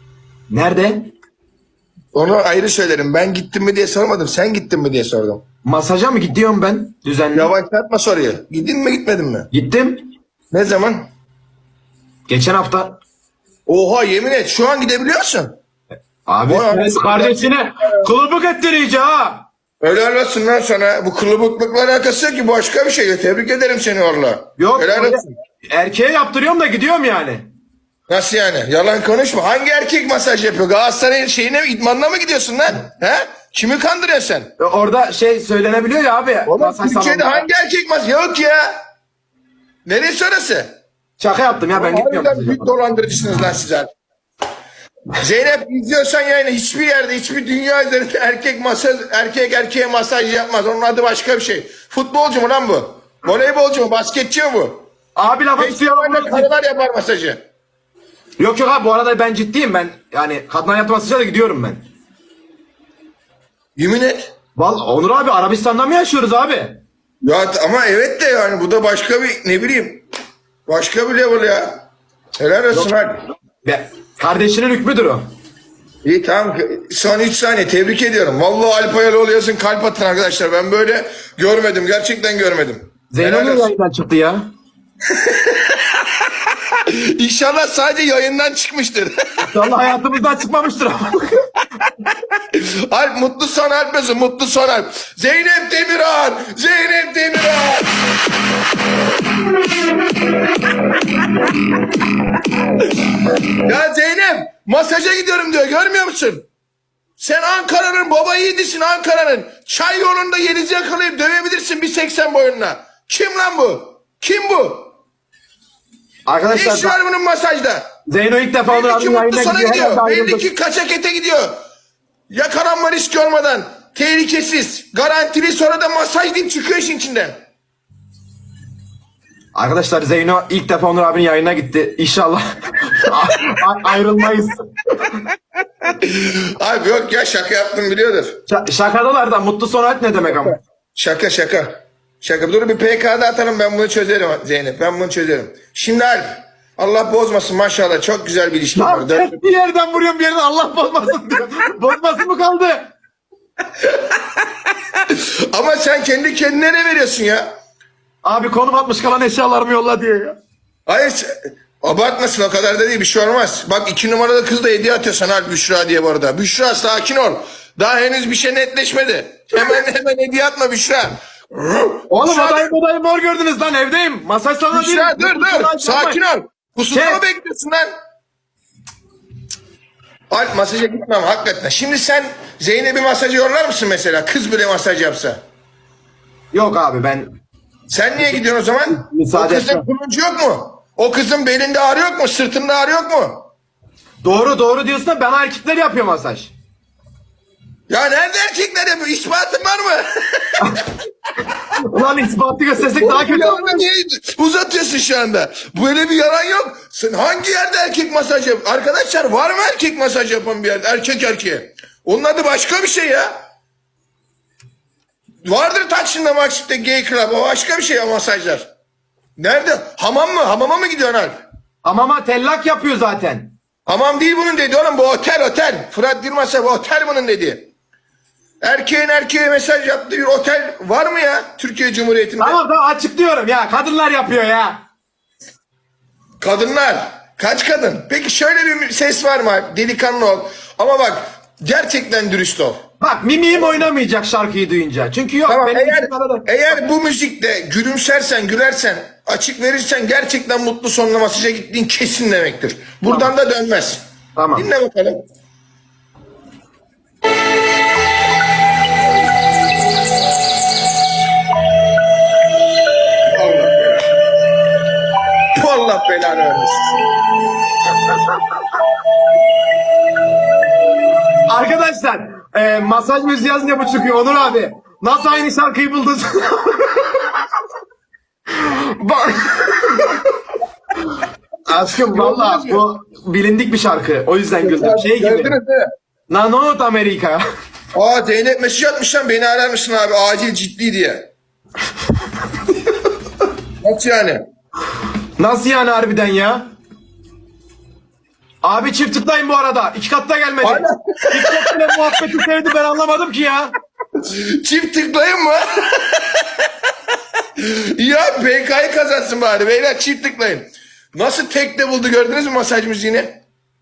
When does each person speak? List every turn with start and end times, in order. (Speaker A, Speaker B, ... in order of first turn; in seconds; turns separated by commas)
Speaker A: 0.5-1.1, Speaker B: 2.1-5.4, Speaker A: 5.6-7.5, Speaker B: 7.3-9.5, Speaker A: 9.5-10.1, Speaker B: 10.5-11.1, Speaker A: 12.3-13.0, Speaker B: 13.7-15.6, Speaker A: 16.2-19.4, Speaker B: 16.5-18.0, Speaker B: 19.8-25.3, Speaker A: 24.6-27.5, Speaker B: 28.1-34.5, Speaker A: 34.6-37.5, Speaker B: 36.5-38.7, Speaker B: 39.9-40.7, Speaker A: 41.2-42.7, Speaker B: 41.7-43.9, Speaker B: 45.2-54.8, Speaker A: 55.1-56.5, Speaker B: 55.6-57.4, Speaker A: 58.4-61.8, Speaker B: 63.8-64.3, Speaker A: 64.6-66.8, Speaker B: 67.2-70.0, Speaker B: 70.7-71.8, Speaker B: 72.4-73.2, Speaker A: 73.6-75.2, Speaker B: 76.0-83.7, Speaker A: 83.1-84.4, Speaker B: 85.1-89.1, Speaker A: 89.5-91.4, Speaker B: 92.5-97.9, Speaker B: 103.5-106.5, Speaker B: 107.2-114.9, Speaker A: 116.2-117.0, Speaker B: 116.5-117.9, Speaker A: 118.1-120.5, Speaker B: 118.7-121.5, Speaker B: 122.3-127.3, Speaker A: 129.5-135.1, Speaker B: 135.8-138.4, Speaker A: 138.5-140.6, Speaker B: 140.9-149.4, Speaker A: 148.8-152.9, Speaker B: 155.1-157.5, Speaker A: 158.2-160.4, Speaker B: 160.9-161.3, Speaker B: 161.8-172.7, Speaker A: 172.1-176.2, Speaker B: 174.7-177.9, Speaker A: 176.9-177.2, Speaker B: 180.3-185.4, Speaker A: 186.5-187.3, Speaker B: 187.9-193.4, Speaker A: 188.2-189.8, Speaker A: 194.2-196.5, Speaker B: 197.9-200.8, Speaker A: 201.7-203.8, Speaker B: 202.9-213.3, Speaker B: 215.4-218.7, Speaker B: 219.4-221.4, Speaker A: 221.8-223.5, Speaker B: 223.9-227.7, Speaker B: 228.6-232.6, Speaker A: 232.4-234.8, Speaker B: 236.4-242.8, Speaker A: 243.0-246.8, Speaker B: 245.5-254.0, Speaker A: 253.1-253.3, Speaker A: 254.3-254.7, Speaker B: 254.5-255.2, Speaker B: 263.3-264.0, Speaker B: 265.5-267.0, Speaker A: 271.5-277.2, Speaker A: 278.5-280.2, Speaker A: 281.7-285.6, Speaker B: 281.9-282.8, Speaker B: 284.6-285.9, Speaker A: 286.3-287.4, Speaker B: 287.9-291.3, Speaker B: 293.8-294.4, Speaker A: 295.4-296.7, Speaker A: 298.6-303.7, Speaker B: 300.6-302.0, Speaker B: 304.2-306.7, Speaker B: 307.6-313.4